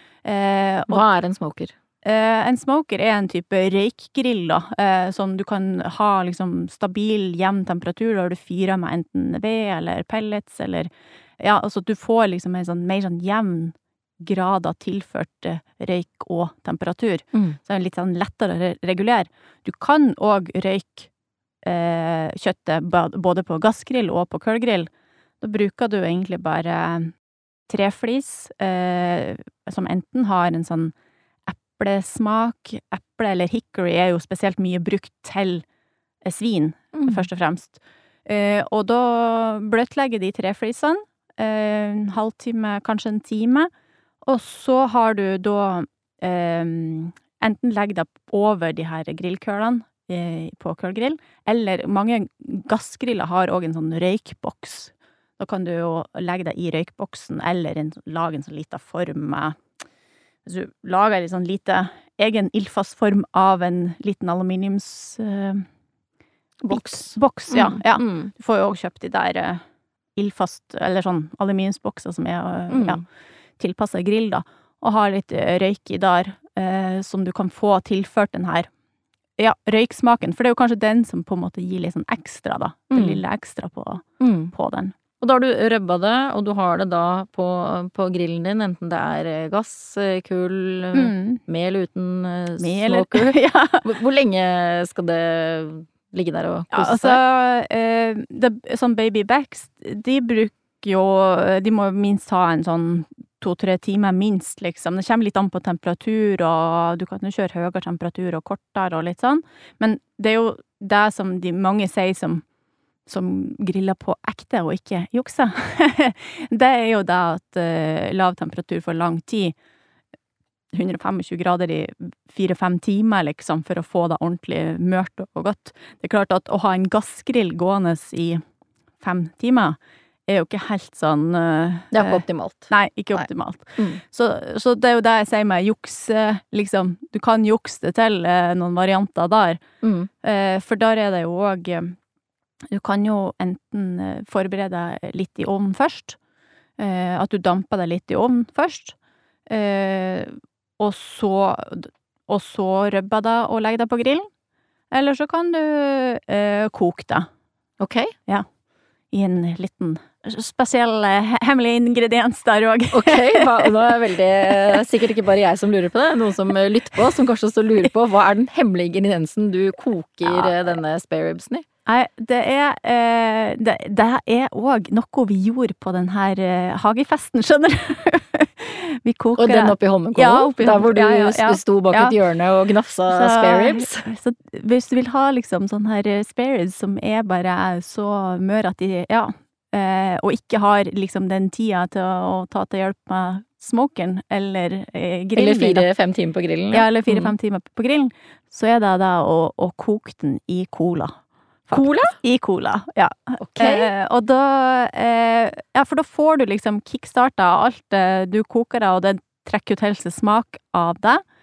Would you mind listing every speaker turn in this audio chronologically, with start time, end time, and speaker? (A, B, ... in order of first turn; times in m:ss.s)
0:00.2-0:01.0 A
0:00.9-0:01.8 B
0:02.0-0:21.1 A
0:21.6-0:24.9 A
0:25.4-0:27.1 A
0:27.7-0:30.9 A
0:31.5-0:35.6 A
0:36.2-0:43.7 A
0:36.9-0:37.3 B
0:44.2-0:59.6 A
1:00.4-1:05.7 A
1:06.6-1:08.3 B
1:06.7-1:09.6 A
1:10.2-1:13.0 A
1:12.7-1:13.0 B
1:13.6-1:18.7 A
1:19.4-1:25.0 A
1:22.9-1:23.2 B
1:24.2-1:24.5 B
1:25.2-1:37.2 B
1:30.9-1:31.4 A
1:32.6-1:33.9 A
1:36.7-1:52.4 A
1:53.1-1:59.6 A
2:00.7-2:08.4 A
2:09.0-2:19.6 A
2:11.9-2:14.0 B
2:19.8-2:20.1 B
2:20.2-2:22.0 A
2:22.7-2:26.2 A
2:26.8-2:29.0 A
2:29.5-2:34.3 A
2:34.9-2:37.3 A
2:37.8-2:38.1 B
2:39.1-2:45.0 A
2:42.9-2:51.6 B
2:50.2-2:50.8 A
2:51.9-3:02.2 A
2:59.4-3:04.1 B
3:03.1-3:15.9 A
3:15.4-3:17.3 B
3:16.7-3:21.1 A
3:21.7-3:31.2 A
3:21.7-3:22.2 B
3:23.4-3:23.9 B